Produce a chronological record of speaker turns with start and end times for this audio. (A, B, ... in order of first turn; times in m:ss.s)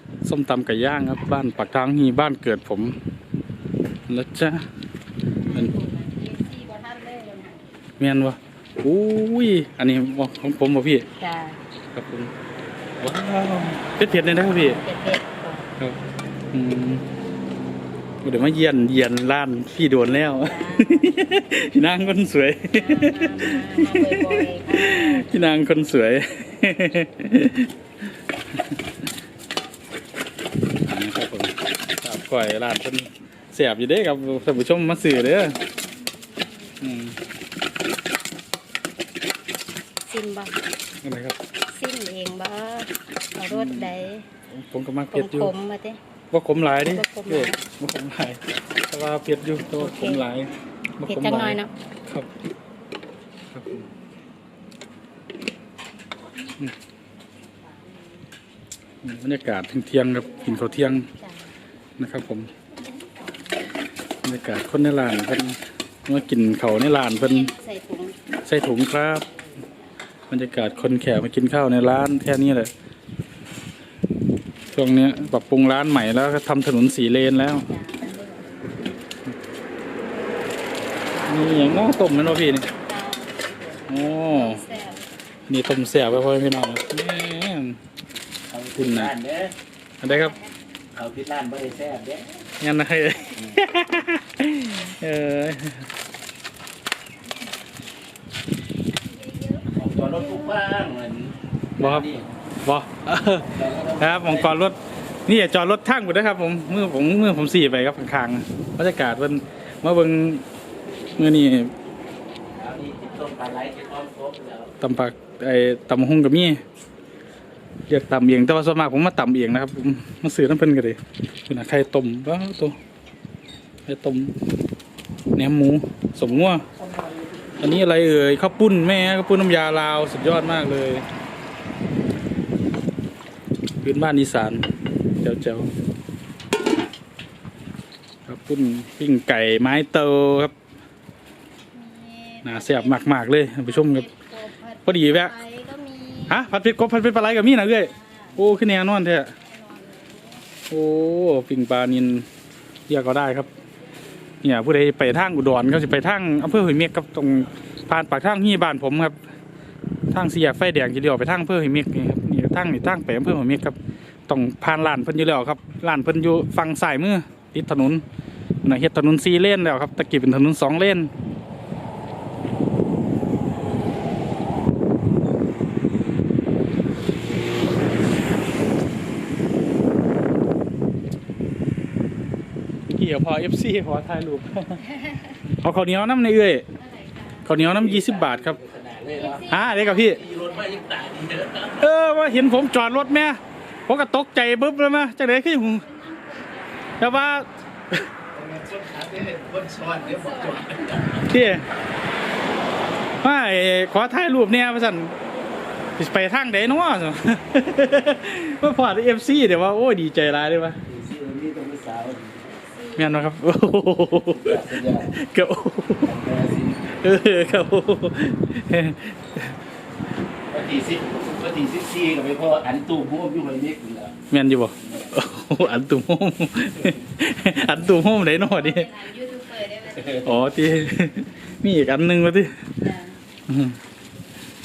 0:00.2-0:03.0 A
0:04.1-0:04.7 A
0:05.4-0:07.6 B
0:08.0-0:11.1 A
0:11.2-0:11.6 B
0:11.9-0:12.3 A
0:13.0-0:14.8 A
0:14.7-0:15.7 B
0:16.5-0:17.0 A
0:18.2-0:27.7 A
0:20.4-0:21.1 B
0:22.7-0:25.3 B
0:28.5-0:28.8 A
0:30.8-0:35.6 A
0:36.8-0:37.2 A
0:40.1-0:40.6 B
0:41.0-0:41.4 A
0:41.7-0:44.2 B
0:43.5-0:45.5 A
0:45.1-0:46.0 B
0:46.3-0:52.3 A
0:46.9-0:47.6 B
0:49.8-0:50.2 B
0:51.1-0:51.7 B
0:53.5-0:53.9 A
0:57.6-0:57.9 B
0:59.0-1:01.1 A
1:00.3-1:01.5 B
1:02.0-1:02.5 A
1:04.2-1:07.5 A
1:07.1-1:08.2 B
1:08.4-1:09.3 A
1:10.3-1:12.7 A
1:14.7-1:17.7 A
1:17.6-1:19.0 B
1:21.2-1:22.7 A
1:22.7-1:25.0 B
1:23.9-1:24.6 A
1:25.5-1:27.8 A
1:28.5-1:29.5 C
1:28.8-1:29.1 A
1:30.0-1:30.3 A
1:30.0-1:30.5 B
1:30.9-1:32.4 C
1:32.6-1:35.8 A
1:38.9-1:40.6 B
1:39.7-1:42.3 C
1:41.8-1:42.1 A
1:42.6-1:50.4 A
1:43.5-1:44.6 C
1:51.2-1:51.7 A
1:52.5-1:54.7 C
1:54.8-1:56.6 A
1:57.9-2:02.8 A
2:03.9-2:04.3 A
2:05.4-2:06.6 A
2:07.6-2:11.0 A
2:13.8-2:14.7 A
2:15.2-2:15.7 A
2:18.3-2:20.5 A
2:21.7-2:26.5 B
2:22.4-2:24.1 A
2:24.8-2:25.3 A
2:26.3-2:29.3 A
2:27.8-2:28.4 B
2:29.2-2:30.5 B
2:30.7-2:32.3 A
2:32.9-2:33.5 A
2:34.4-2:39.2 A
2:40.1-2:43.8 A
2:44.3-2:48.0 A
2:48.6-2:51.1 A
3:02.9-3:04.8 A
3:04.8-3:05.4 B
3:05.6-3:06.6 A
3:06.7-3:07.5 B
3:07.4-3:08.6 A
3:07.6-3:11.9 C
3:09.1-3:10.9 B
3:09.5-3:10.2 A
3:11.8-3:15.8 A
3:15.5-3:17.0 B
3:17.0-3:18.1 A
3:18.3-3:21.3 C
3:19.9-3:21.2 B
3:21.3-3:21.6 A
3:23.2-3:25.2 A
3:26.0-3:30.8 A
3:30.9-3:32.4 C
3:32.5-3:33.2 B
3:33.0-3:36.2 A
3:34.3-3:35.1 C
3:36.0-3:36.8 C
3:36.9-3:39.6 A
3:40.5-3:44.1 C
3:44.3-3:48.9 A
3:44.8-3:45.2 C
3:48.2-3:50.5 B
3:50.2-3:52.6 A
3:52.8-3:53.2 B
3:53.5-3:53.8 A